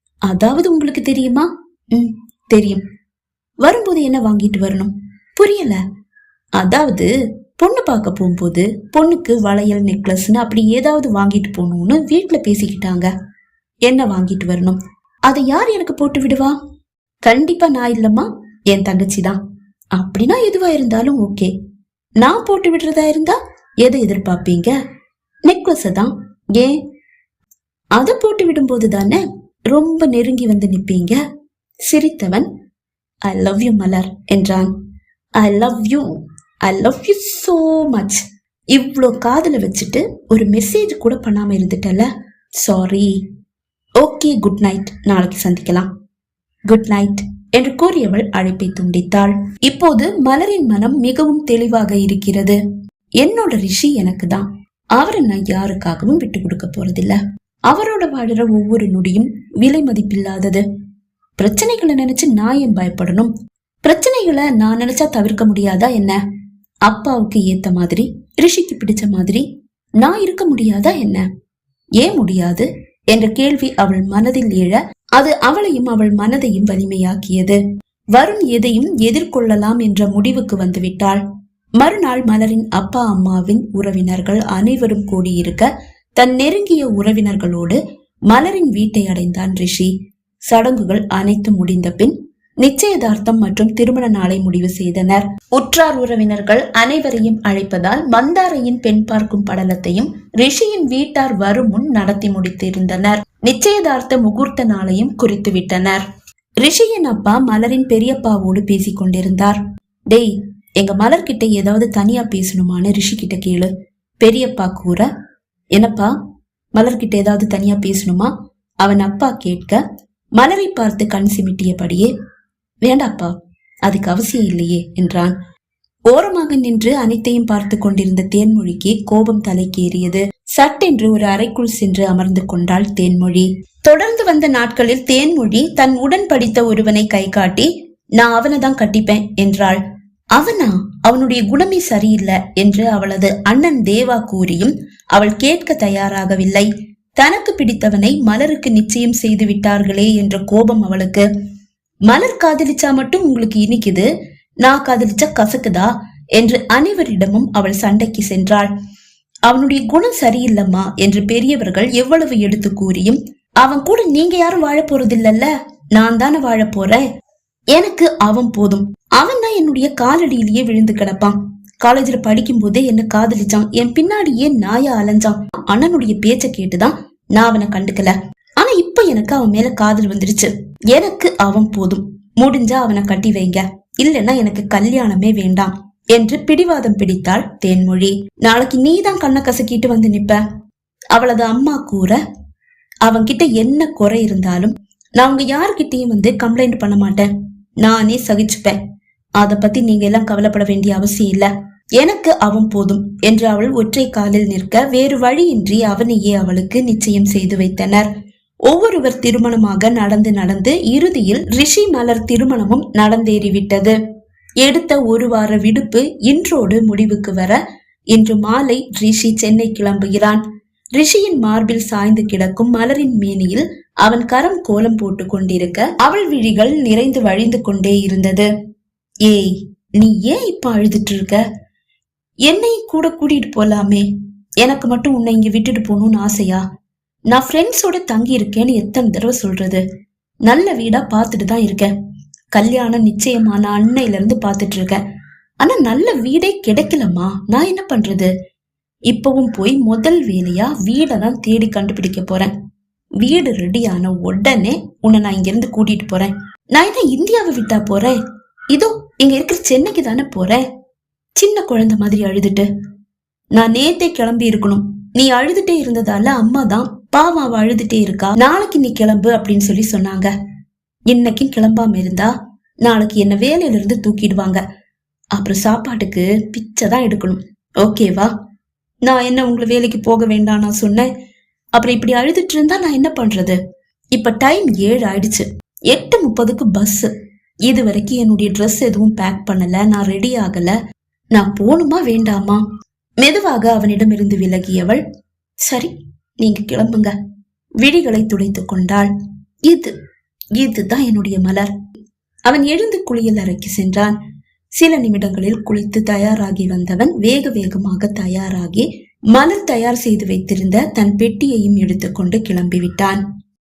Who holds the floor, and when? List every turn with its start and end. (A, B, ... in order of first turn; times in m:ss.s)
0:00.3-0:02.8 A
0:03.6-0:05.8 A
0:06.6-0:13.1 A
0:13.9-0:16.6 A
0:17.2-0:19.4 A
0:20.0-0:21.5 A
0:22.2-0:24.8 A
0:25.5-0:26.8 A
0:28.0-0:31.2 A
0:31.9-0:32.5 A
0:33.2-0:34.7 A
0:35.4-0:36.1 A
0:36.6-0:43.1 A
0:44.0-0:45.9 A
0:46.7-0:52.6 A
0:53.2-1:00.6 A
1:01.4-1:03.3 A
1:03.8-1:06.2 A
1:06.9-1:09.4 A
1:10.0-1:11.3 A
1:12.0-1:17.6 A
1:18.1-1:21.2 A
1:21.8-1:29.9 A
1:30.5-1:46.0 A
1:46.6-1:49.6 A
1:50.1-1:55.1 A
1:55.7-1:56.1 A
1:56.8-1:58.3 A
1:58.8-1:59.8 A
2:00.4-2:02.1 A
2:02.8-2:03.3 A
2:03.8-2:05.4 A
2:06.1-2:19.8 A
2:20.4-2:31.3 A
2:32.1-2:34.1 A
2:34.6-2:38.7 A
2:39.5-2:47.0 A
2:47.7-3:10.4 A
3:11.2-3:12.2 A
3:13.1-3:17.3 A
3:17.8-3:18.8 A
3:19.4-3:28.1 A
3:28.7-3:34.0 A
3:34.6-3:37.6 A
3:38.1-3:40.4 A
3:41.0-3:48.5 A
3:49.2-3:51.4 A
3:52.5-3:54.1 A
3:54.6-3:56.6 A
3:57.3-3:59.8 A
4:00.5-4:01.9 A
4:02.5-4:05.0 A
4:05.6-4:08.3 A
4:09.1-4:12.5 A
4:13.2-4:18.2 A
4:18.7-4:20.6 A
4:21.4-4:22.7 A
4:23.6-4:30.3 A
4:31.1-4:34.6 A
4:35.3-4:38.3 A
4:39.0-4:41.1 A
4:41.8-4:43.6 A
4:44.1-4:47.1 A
4:47.7-4:50.8 A
4:51.3-4:52.6 A
4:53.2-4:55.0 A
4:55.6-4:57.2 A
4:57.8-4:59.1 A
4:59.7-5:00.0 A
5:00.6-5:01.7 A
5:02.5-5:04.2 A
5:04.8-5:13.2 A